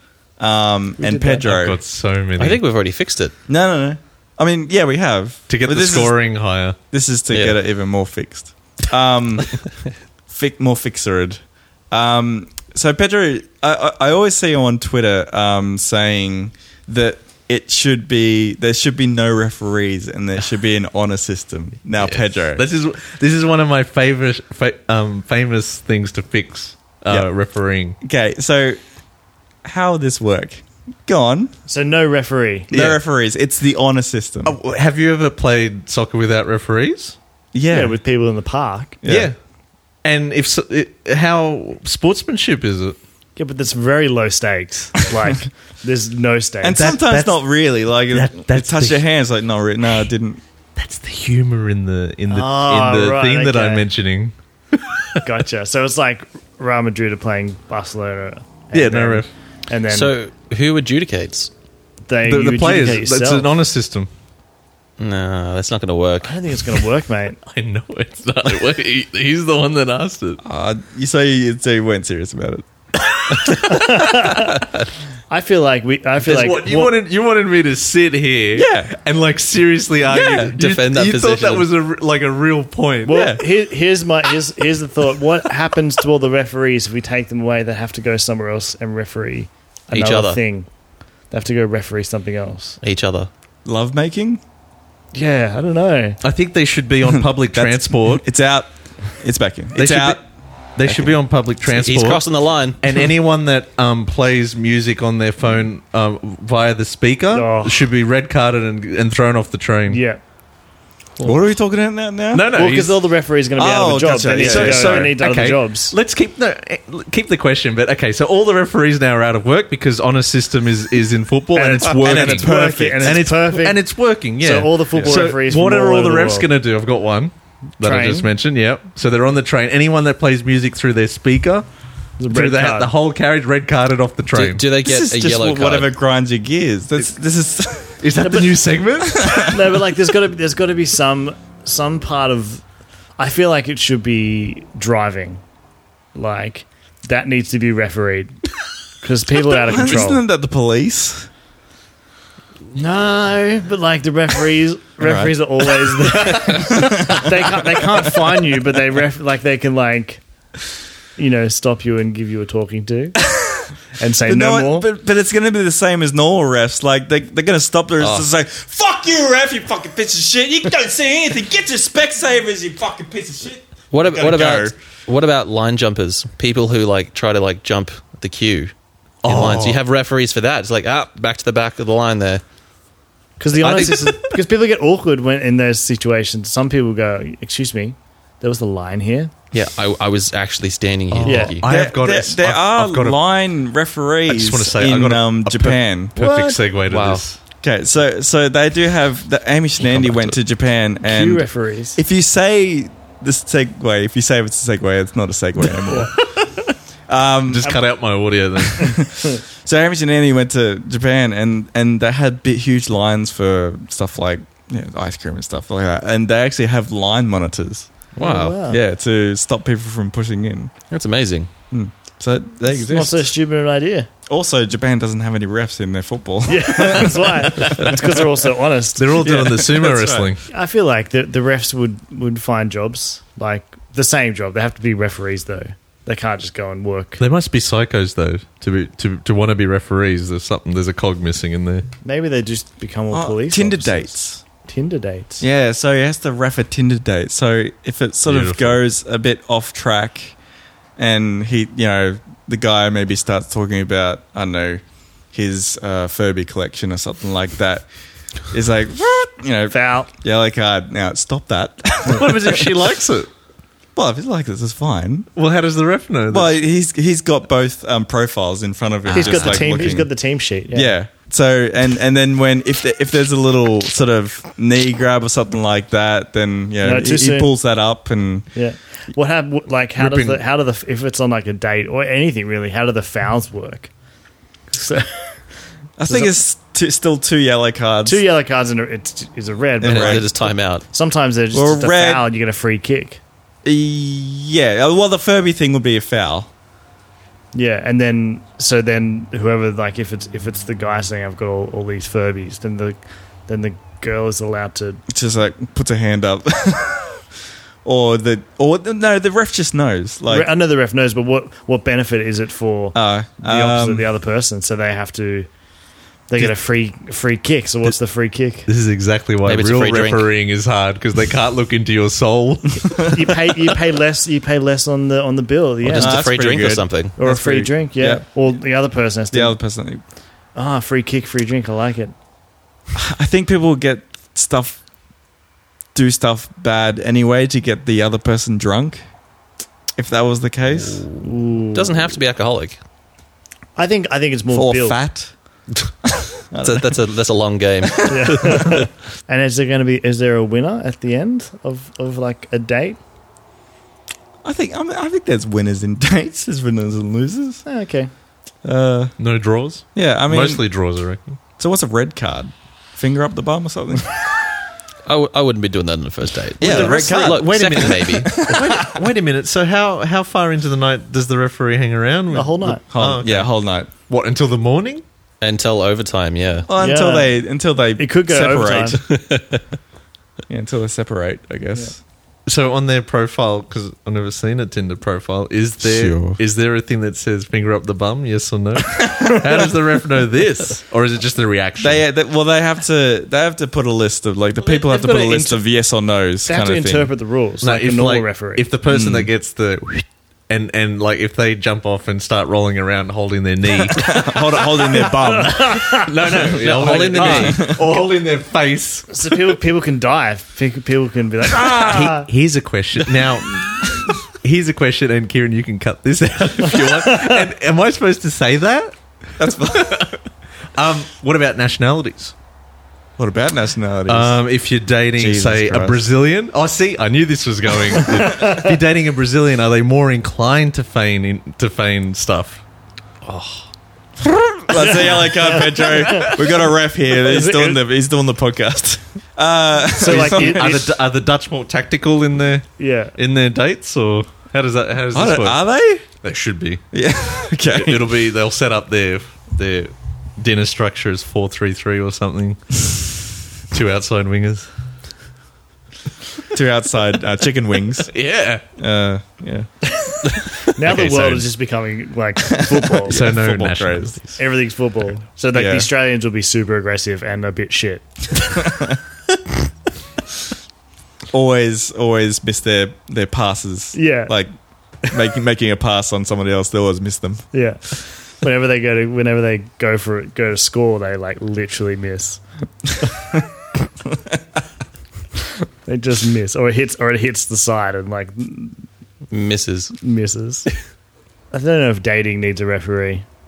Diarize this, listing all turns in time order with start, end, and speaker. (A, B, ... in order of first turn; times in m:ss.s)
0:00.4-0:01.8 A
0:01.0-0:01.5 B
0:01.4-0:02.6 C
0:02.4-0:03.3 D
0:03.5-0:06.2 A
0:05.5-0:06.8 C
0:06.9-0:09.7 A
0:07.3-0:07.6 D
0:10.3-0:22.6 A
0:22.0-0:28.0 C
0:28.0-0:28.8 A
0:29.6-0:31.6 A
0:31.7-0:32.7 B
0:32.7-0:33.0 C
0:32.7-0:34.6 A
0:34.4-0:37.2 C
0:37.5-0:38.0 A
0:37.7-0:39.0 B
0:39.0-0:39.3 A
0:39.1-0:39.4 C
0:40.0-0:43.0 C
0:43.4-0:46.8 B
0:46.6-0:50.4 A
0:46.8-0:47.5 C
0:48.1-0:49.1 C
0:50.8-0:55.2 C
0:52.3-0:53.8 B
0:55.2-1:00.1 B
0:58.7-0:59.3 C
0:59.9-1:01.5 D
1:02.1-1:03.5 B
1:02.2-1:04.1 C
1:05.0-1:06.3 D
1:06.2-1:07.4 B
1:07.4-1:10.4 C
1:10.4-1:12.6 A
1:13.1-1:13.7 C
1:13.6-1:14.6 B
1:15.3-1:16.9 B
1:16.2-1:23.2 C
1:18.6-1:19.0 A
1:20.1-1:20.5 A
1:20.4-1:21.7 D
1:23.1-1:30.7 B
1:23.1-1:23.4 A
1:29.9-1:30.4 D
1:31.3-1:32.8 B
1:32.8-1:33.3 D
1:33.6-1:34.4 A
1:35.1-1:36.2 B
1:36.2-1:38.2 C
1:37.2-1:40.2 A
1:39.8-1:42.2 C
1:41.7-1:42.8 D
1:42.8-1:50.0 C
1:47.3-1:47.8 B
1:49.9-1:50.2 B
1:51.2-1:52.5 A
1:52.3-1:53.0 C
1:52.5-1:56.0 B
1:53.6-1:55.2 A
1:54.3-2:11.7 C
2:01.6-2:03.8 B
2:01.9-2:03.2 A
2:04.4-2:06.5 B
2:07.8-2:08.3 B
2:12.2-2:12.9 B
2:12.3-2:14.6 C
2:14.3-2:15.9 D
2:14.8-2:18.0 A
2:18.0-2:19.5 C
2:18.2-2:18.6 B
2:19.2-2:19.5 A
2:19.3-2:22.6 B
2:23.2-2:25.4 B
2:26.1-2:28.4 B
2:29.0-2:30.2 B
2:29.4-2:31.3 A
2:32.7-2:40.2 B
2:35.0-2:35.4 A
2:36.3-2:38.1 A
2:41.2-2:43.2 B
2:43.3-2:43.7 A
2:44.0-2:44.9 B
2:44.3-2:54.8 A
2:48.0-2:48.2 D
2:53.9-2:58.7 D
2:59.2-2:59.8 C
2:59.2-3:02.4 D
3:03.4-3:09.3 B
3:03.6-3:04.0 D
3:03.6-3:04.3 C
3:09.5-3:11.7 D
3:11.1-3:13.2 C
3:11.2-3:11.6 B
3:11.7-3:16.1 A
3:14.3-3:17.4 C
3:16.2-3:16.6 B
3:16.9-3:17.2 D
3:17.6-3:26.3 A
3:21.0-3:22.0 B
3:27.1-3:27.8 A
3:27.5-3:29.0 C
3:28.8-3:38.1 A
3:38.2-3:38.6 D
3:38.2-3:38.8 B
3:38.6-3:40.7 A
3:40.9-3:41.5 D
3:41.7-3:43.3 A
3:42.7-3:44.1 B
3:44.3-3:47.9 A
3:46.5-3:49.3 B
3:49.0-3:50.4 C
3:49.2-3:50.3 A
3:50.4-3:57.2 B
3:57.2-4:01.9 C
4:02.0-4:05.4 B
4:03.1-4:04.4 A
4:05.4-4:10.4 A
4:08.3-4:08.8 C
4:11.0-4:17.9 A
4:18.5-4:22.7 A
4:19.7-4:20.1 B
4:22.1-4:23.3 C
4:24.0-4:25.3 A
4:25.4-4:26.6 C
4:26.3-4:30.1 A
4:29.1-4:31.0 B
4:29.2-4:29.5 C
4:30.7-4:38.5 A
4:36.8-4:37.5 B
4:38.5-4:43.9 B
4:40.0-4:40.4 C
4:44.7-4:45.4 B
4:46.0-4:48.2 A
4:46.1-4:46.3 B
4:48.0-4:53.2 B
4:49.8-4:50.3 A
4:49.8-4:50.9 D
4:51.5-4:52.2 A
4:53.6-4:56.5 A
4:57.5-5:05.0 B
5:05.1-5:07.3 A
5:07.8-5:10.5 A
5:10.3-5:15.5 B
5:12.9-5:14.0 A
5:16.3-5:18.7 B
5:18.7-5:23.3 C
5:19.4-5:20.3 D
5:23.0-5:26.2 B
5:25.8-5:27.2 D
5:25.9-5:28.3 A
5:27.2-5:29.6 B
5:29.3-5:30.0 A
5:30.6-5:32.2 B
5:33.0-5:34.8 A
5:36.0-5:39.1 A
5:40.0-5:41.0 A
5:41.2-5:42.1 B
5:41.7-5:42.8 D
5:43.8-5:45.0 B
5:44.5-5:45.3 A
5:46.5-5:46.9 A
5:46.6-5:48.8 D
5:48.1-5:53.0 B
5:54.4-5:57.6 A
5:57.7-5:58.1 B
5:58.6-5:59.2 A
5:59.2-6:01.4 C
5:59.9-6:00.7 A
6:01.6-6:04.1 A
6:05.0-6:08.5 D
6:06.6-6:09.0 A
6:06.6-6:15.0 C
6:12.3-6:12.8 B
6:12.6-6:13.9 A
6:15.4-6:16.7 D
6:16.7-6:19.2 A
6:16.8-6:17.4 B
6:18.0-6:19.0 B
6:19.0-6:19.6 D
6:20.5-6:22.0 A
6:22.5-6:32.1 C
6:25.8-6:26.4 A
6:31.8-6:37.1 A
6:34.6-6:35.6 B
6:36.5-6:38.6 B
6:37.6-6:44.2 C
6:38.9-6:39.3 A
6:44.0-6:46.0 A
6:44.1-6:46.4 B
6:45.9-6:49.2 C
6:46.4-6:47.7 D
6:47.2-6:47.5 B
6:47.2-6:47.8 A
6:49.1-6:52.3 B
6:51.6-6:53.6 C
6:54.3-6:58.9 C
6:59.4-7:00.2 A
6:59.7-7:00.2 C
7:00.8-7:02.3 C
7:03.2-7:04.4 A
7:04.1-7:12.6 C
7:05.2-7:06.0 A
7:08.0-7:08.7 B
7:14.7-7:20.8 A
7:14.8-7:16.5 B
7:17.2-7:17.8 B
7:20.0-7:20.8 B
7:20.1-7:25.6 C
7:22.8-7:23.2 B
7:25.1-7:26.1 A
7:26.2-7:26.8 C
7:26.9-7:28.2 A
7:27.7-7:34.7 C
7:36.5-7:38.1 A
7:38.1-7:38.6 C
7:38.8-7:39.8 A
7:40.7-7:43.2 B
7:40.8-7:41.4 C
7:42.5-7:44.2 A
7:43.1-7:44.4 C
7:44.4-7:48.6 B
7:45.5-7:45.9 A
7:51.3-7:54.5 A
7:53.9-7:54.3 B
7:55.0-7:57.5 A
7:57.5-7:57.8 B
7:58.4-8:02.4 B
8:05.9-8:08.8 B
8:09.3-8:09.9 D
8:10.0-8:10.7 B
8:11.5-8:13.3 B